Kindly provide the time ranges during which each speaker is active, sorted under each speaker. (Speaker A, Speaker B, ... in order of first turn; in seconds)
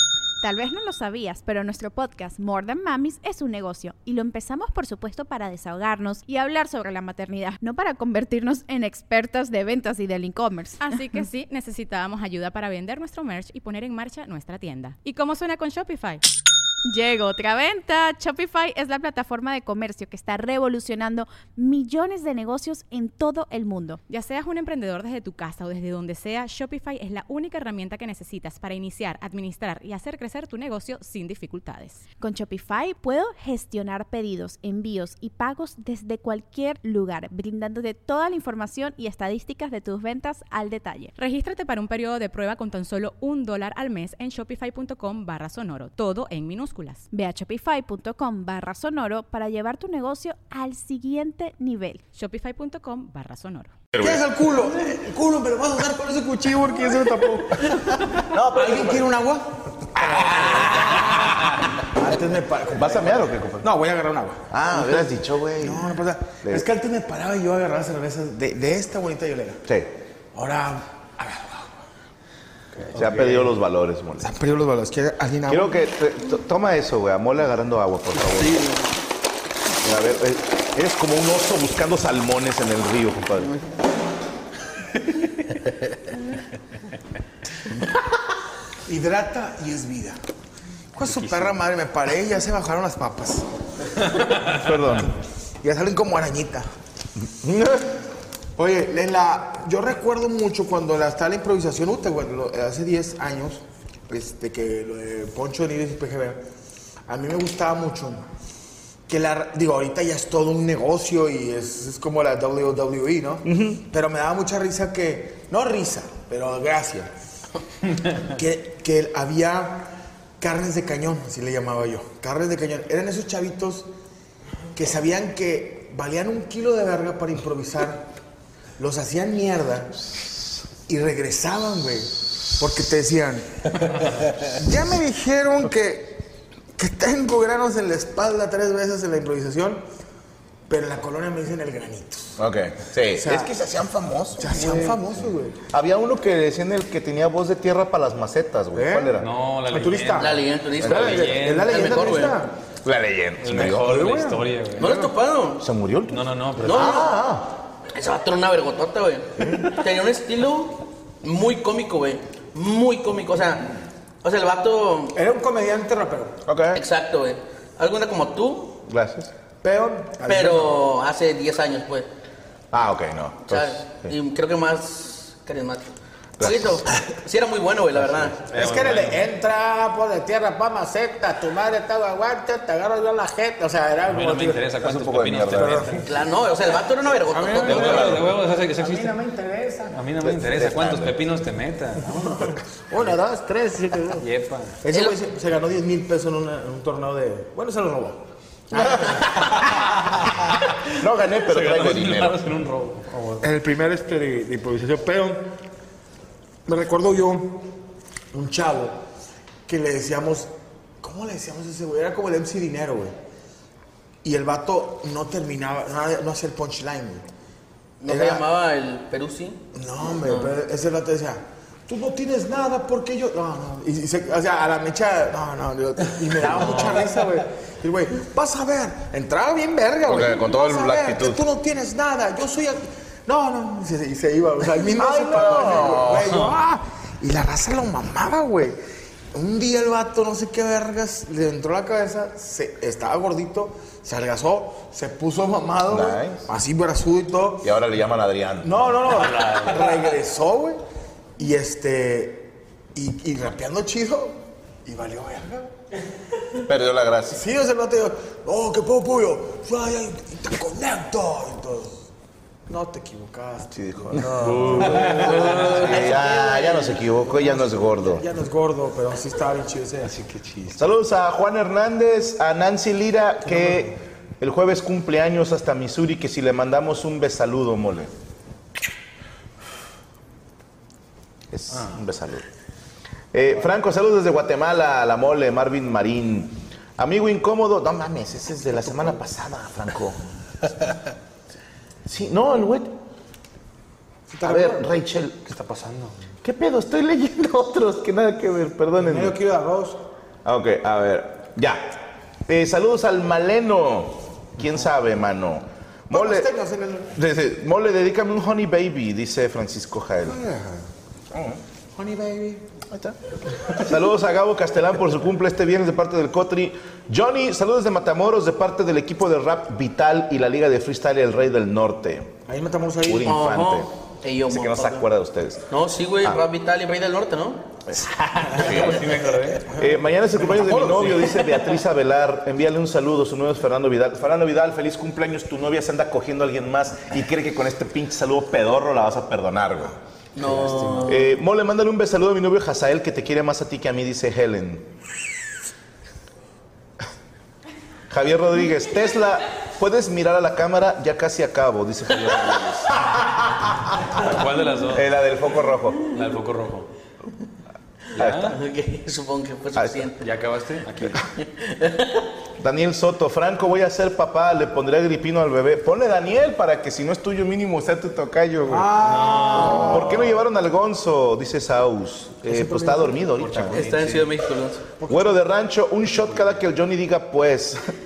Speaker A: 0.4-11.2, 16.9-24.0, 32.2-41.1, 47.1-52.0
Speaker B: 10.8-16.2, 24.1-32.0, 41.1-47.0, 52.1-53.7
Speaker C: 53.9-54.2, 58.1-59.1, 59.9-61.6, 62.7-63.7, 64.5-65.9, 69.7-69.9, 72.9-74.3, 75.5-78.7, 79.8-83.5, 94.4-95.1, 97.4-97.9, 113.4-113.8, 142.4-145.0, 145.7-149.3, 152.8-154.0, 155.6-157.6, 159.4-159.7, 166.4-166.8, 168.9-169.3, 172.7-174.1, 176.4-176.8, 184.8-185.9, 187.7-188.2, 190.2-191.2, 198.7-199.7, 200.8-202.4, 230.1-231.4, 234.9-236.3, 245.9-246.5, 247.6-248.9, 256.6-257.4, 263.7-268.2, 270.7-278.1, 281.5-282.4, 283.3-290.2, 292.1-292.9, 294.4-295.4, 296.4-299.4, 300.4-306.5, 307.1-310.4, 311.3-311.6, 312.9-313.2, 313.7-322.3, 323.0-323.9, 324.5-325.6, 327.9-329.2, 329.7-340.0, 341.0-344.9, 348.1-353.3, 354.9-356.1, 358.1-358.6, 362.6-369.0, 369.6-373.9, 375.1-377.8
Speaker D: 54.0-65.1, 65.6-69.6, 70.3-71.8, 72.7-73.5, 74.2-75.7, 88.9-90.2, 91.0-93.5, 94.0-96.7, 98.6-106.4, 107.1-108.2, 109.1-117.1, 118.2-123.9, 124.7-128.1, 128.8-130.0, 130.9-139.8, 140.7-142.4, 143.1-143.5, 144.4-145.6, 148.7-152.5, 153.6-155.1, 156.8-157.1, 165.1-166.3, 169.6-170.8, 178.5-184.7, 185.5-186.2, 187.3-190.0, 192.1-194.3, 194.8-199.9, 203.4-205.5, 206.7-207.7, 208.3-209.0, 209.7-210.5, 211.0-213.1, 214.2-217.2, 218.1-218.4, 219.7-238.8, 239.3-247.7, 248.6-250.8, 251.4-255.7, 257.3-262.1, 262.7-270.1, 294.3-294.9, 299.0-300.0, 306.1-307.1, 310.2-310.9, 311.9-312.6, 322.5-323.4, 328.5-328.8, 329.6-331.6, 368.6-370.4, 372.4-373.3, 375.0-375.4
Speaker E: 78.3-78.8, 150.2-152.4, 154.8-155.7, 156.6-157.1, 157.9-163.7, 164.2-165.2, 166.7-168.8, 170.2-172.1, 173.5-178.4, 186.0-188.2, 194.9-195.2, 218.0-219.6, 220.2-220.5, 265.0-267.0, 323.2-325.1, 325.7-327.7, 340.4-341.2, 358.3-360.2, 361.4-362.3, 373.7-374.8
Speaker F: 91.2-91.5, 149.2-152.2, 153.4-155.1, 156.1-157.0, 178.5-179.2, 184.1-186.1, 187.4-189.2, 189.9-192.4, 194.2-194.8, 201.4-203.5, 249.1-250.1, 264.1-265.9, 270.0-270.9, 295.5-296.2, 328.5-329.7, 340.4-341.1, 354.1-355.1, 356.1-356.9, 358.1-358.6, 360.2-361.2, 369.0-370.0, 373.4-374.3